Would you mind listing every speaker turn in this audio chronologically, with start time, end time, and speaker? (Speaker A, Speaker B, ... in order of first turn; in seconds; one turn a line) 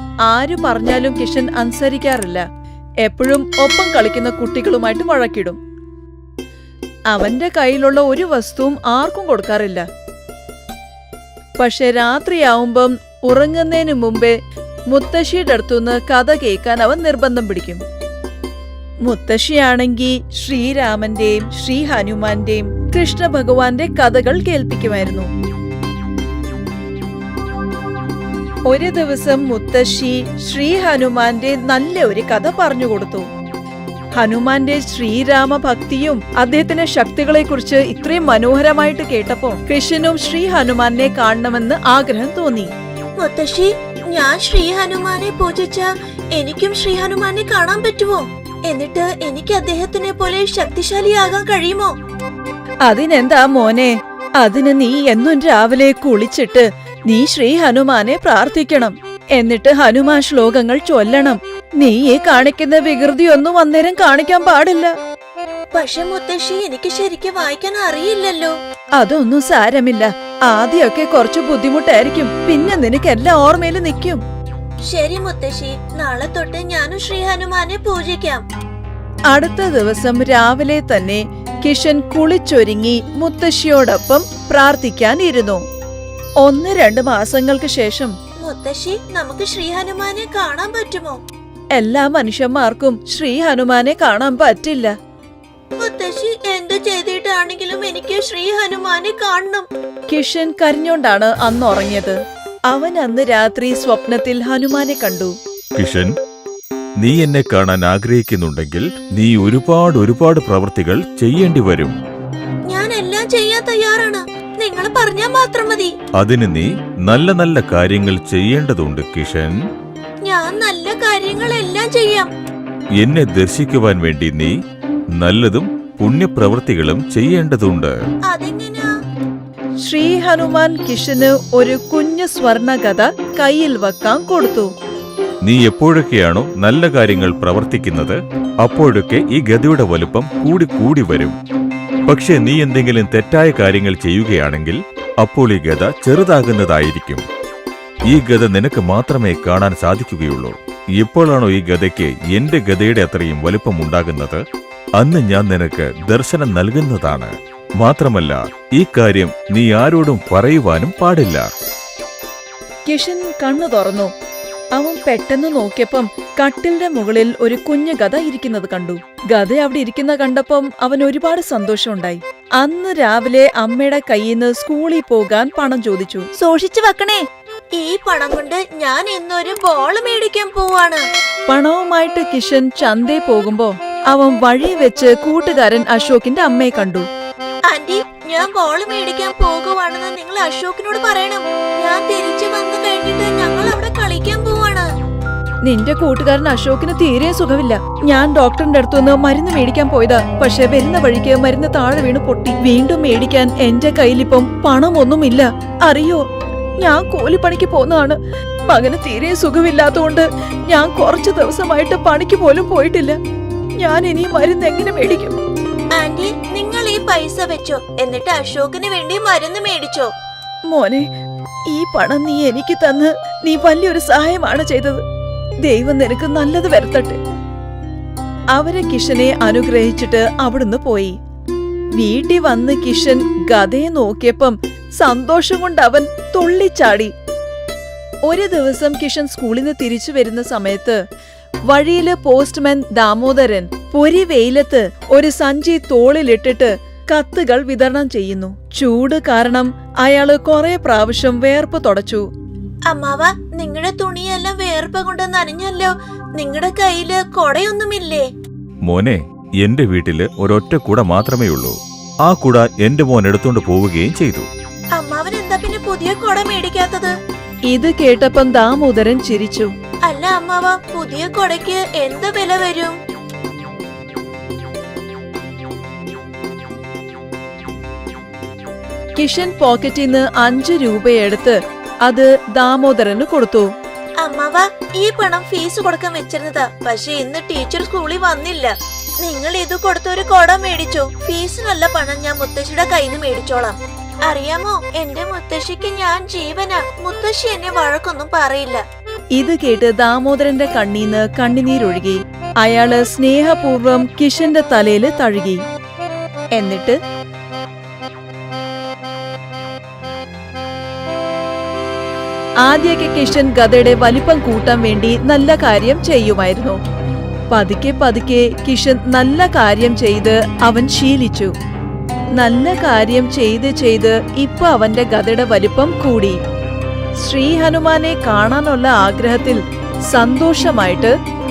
Speaker A: 0.3-2.4
Speaker A: 3.0-5.6
Speaker A: 7.1-9.8
Speaker A: 11.6-14.3
Speaker A: 14.9-17.8
Speaker A: 19.1-25.3
Speaker A: 28.7-33.3
Speaker A: 34.2-42.7
Speaker B: 43.2-51.9
Speaker A: 52.9-64.9
Speaker B: 65.7-68.5
Speaker A: 69.0-74.2
Speaker B: 74.9-78.4
Speaker A: 79.3-85.6
Speaker A: 86.4-88.1
Speaker B: 88.4-91.2
Speaker A: 91.7-94.9
Speaker B: 95.8-99.7
Speaker A: 100.1-102.2
Speaker A: 102.7-105.3
Speaker C: 105.8-106.1
Speaker C: 107.0-112.0
Speaker B: 112.7-115.9
Speaker C: 116.2-119.5
Speaker B: 120.2-122.3
Speaker C: 123.0-124.5
Speaker C: 125.2-128.0
Speaker B: 128.3-128.9
Speaker A: 129.8-134.7
Speaker C: 135.4-141.3
Speaker C: 142.1-147.2
Speaker C: 148.1-154.4
Speaker C: 155.0-161.4
Speaker A: 162.9-164.1
Speaker A: 164.8-176.3
Speaker B: 176.4-181.0
Speaker A: 181.5-187.1
Speaker B: 187.7-194.9
Speaker A: 195.6-206.2
Speaker A: 206.8-208.2
Speaker A: 208.7-213.2
Speaker A: 213.8-215.3
Speaker B: 215.9-220.1
Speaker A: 220.7-221.1
Speaker A: 221.7-225.0
Speaker A: 225.6-227.2
Speaker A: 228.5-231.1
Speaker A: 231.9-237.1
Speaker A: 238.3-241.0
Speaker A: 241.7-252.2
Speaker B: 252.9-258.2
Speaker C: 258.9-264.5
Speaker B: 264.9-267.1
Speaker A: 267.7-269.7
Speaker B: 270.1-272.9
Speaker A: 279.2-283.7
Speaker B: 284.2-298.8
Speaker A: 299.3-305.6
Speaker A: 306.5-307.0
Speaker A: 312.6-316.8
Speaker A: 317.5-321.5
Speaker A: 322.4-326.4
Speaker A: 327.2-331.1